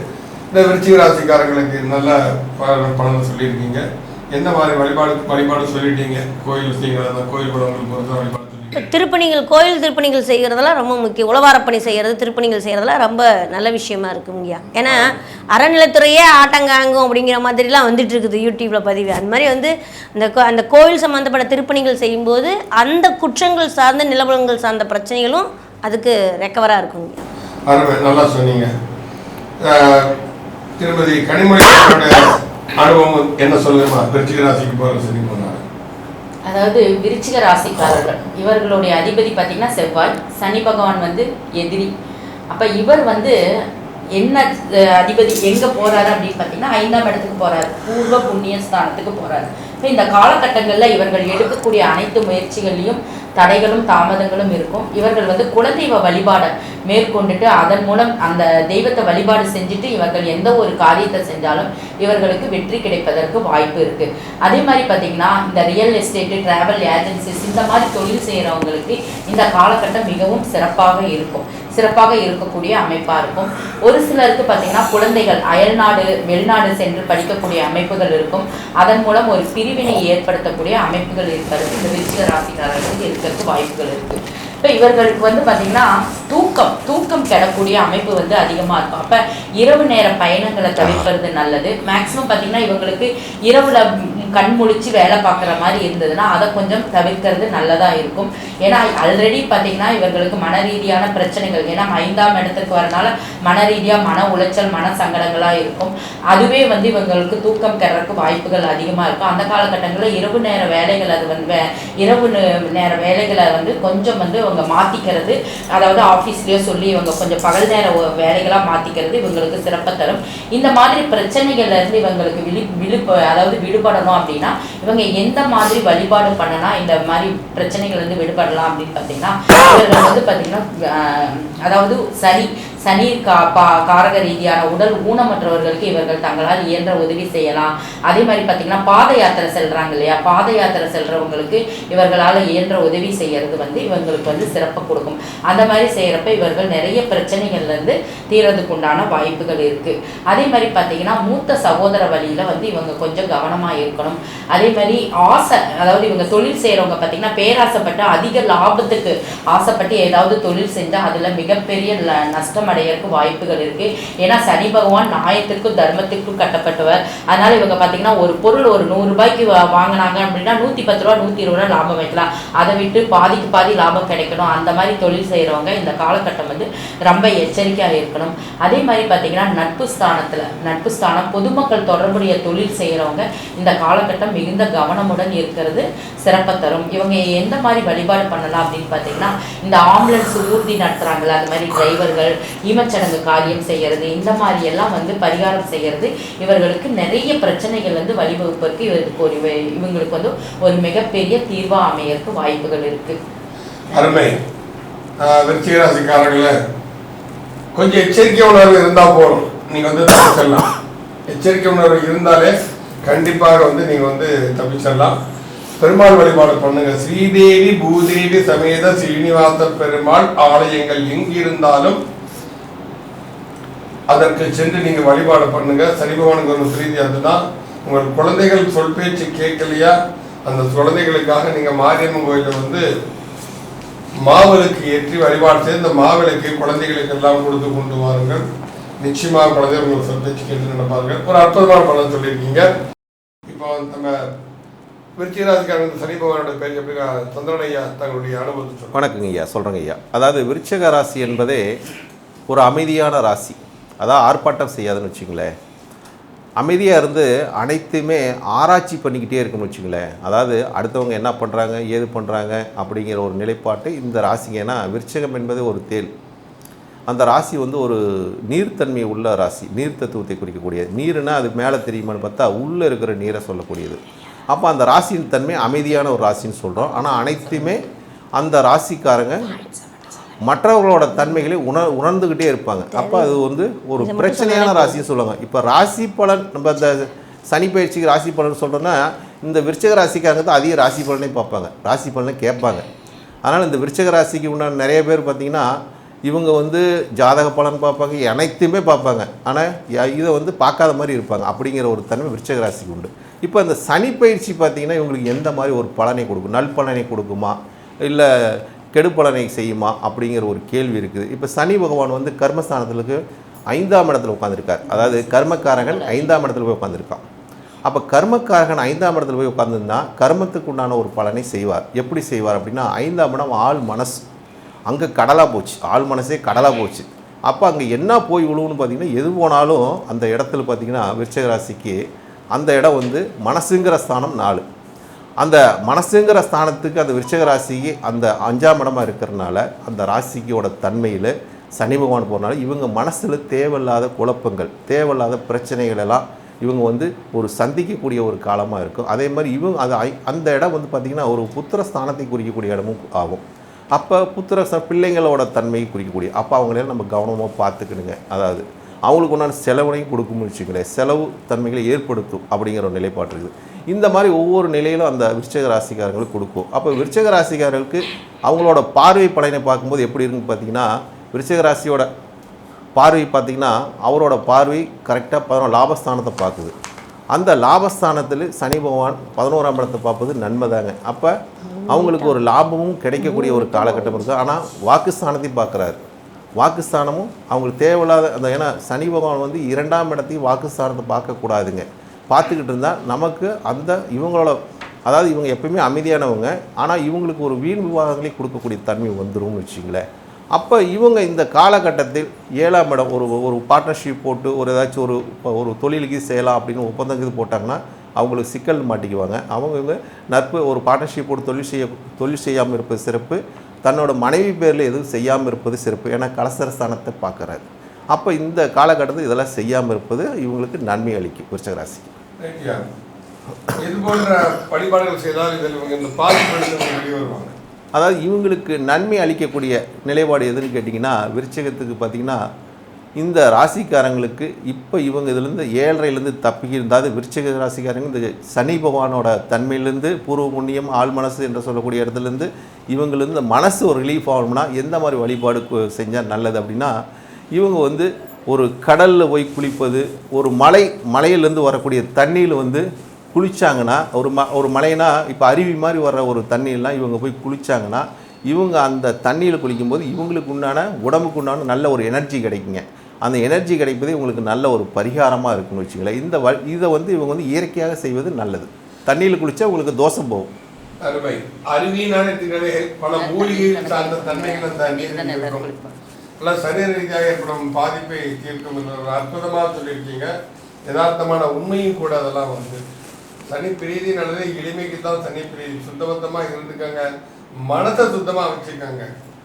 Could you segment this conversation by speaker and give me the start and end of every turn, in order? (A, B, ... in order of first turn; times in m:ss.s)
0:00.5-0:08.9 A
0:08.7-0:27.2 B
0:27.7-0:28.7 A
0:29.6-0:30.2 A
0:30.8-0:35.6 A
0:36.5-0:41.9 C
0:42.5-0:43.3 C
0:44.2-3:23.2 C
3:23.9-3:24.4 A
3:25.2-3:26.6 A
3:27.8-3:30.6 A
3:31.3-3:32.5 A
3:33.0-3:35.2 A
3:35.8-3:42.0 A
3:44.1-3:52.8 A
3:54.2-3:58.4 A
3:59.0-4:02.7 A
4:03.5-4:04.2 A
4:05.2-4:09.0 A
4:08.9-4:11.6 D
4:12.5-4:15.5 D
4:16.6-4:26.1 D
4:27.1-4:34.0 D
4:34.5-4:37.8 D
4:38.4-4:39.6 D
4:40.5-4:52.8 D
4:42.9-4:43.4 B
4:44.0-4:45.0 B
4:53.5-4:55.7 D
4:56.3-5:17.2 D
5:14.9-5:16.5 C
5:17.9-5:24.2 D
5:24.9-5:32.0 D
5:32.5-5:34.6 D
5:35.4-5:53.4 D
5:54.0-6:12.1 D
6:13.0-6:16.8 D
6:17.3-6:21.3 D
6:21.8-6:22.2 B
6:21.9-6:26.0 D
6:23.4-6:24.2 B
6:26.6-6:40.0 D
6:40.6-7:02.1 D
7:02.4-7:02.8 A
7:03.8-7:07.6 A
7:08.0-7:12.4 D
7:13.2-7:26.9 D
7:27.6-7:50.5 D
7:51.0-7:55.7 A
7:53.1-7:56.0 C
7:56.4-8:00.3 A
8:00.9-8:02.8 A
8:03.5-8:07.1 A
8:07.7-8:09.1 A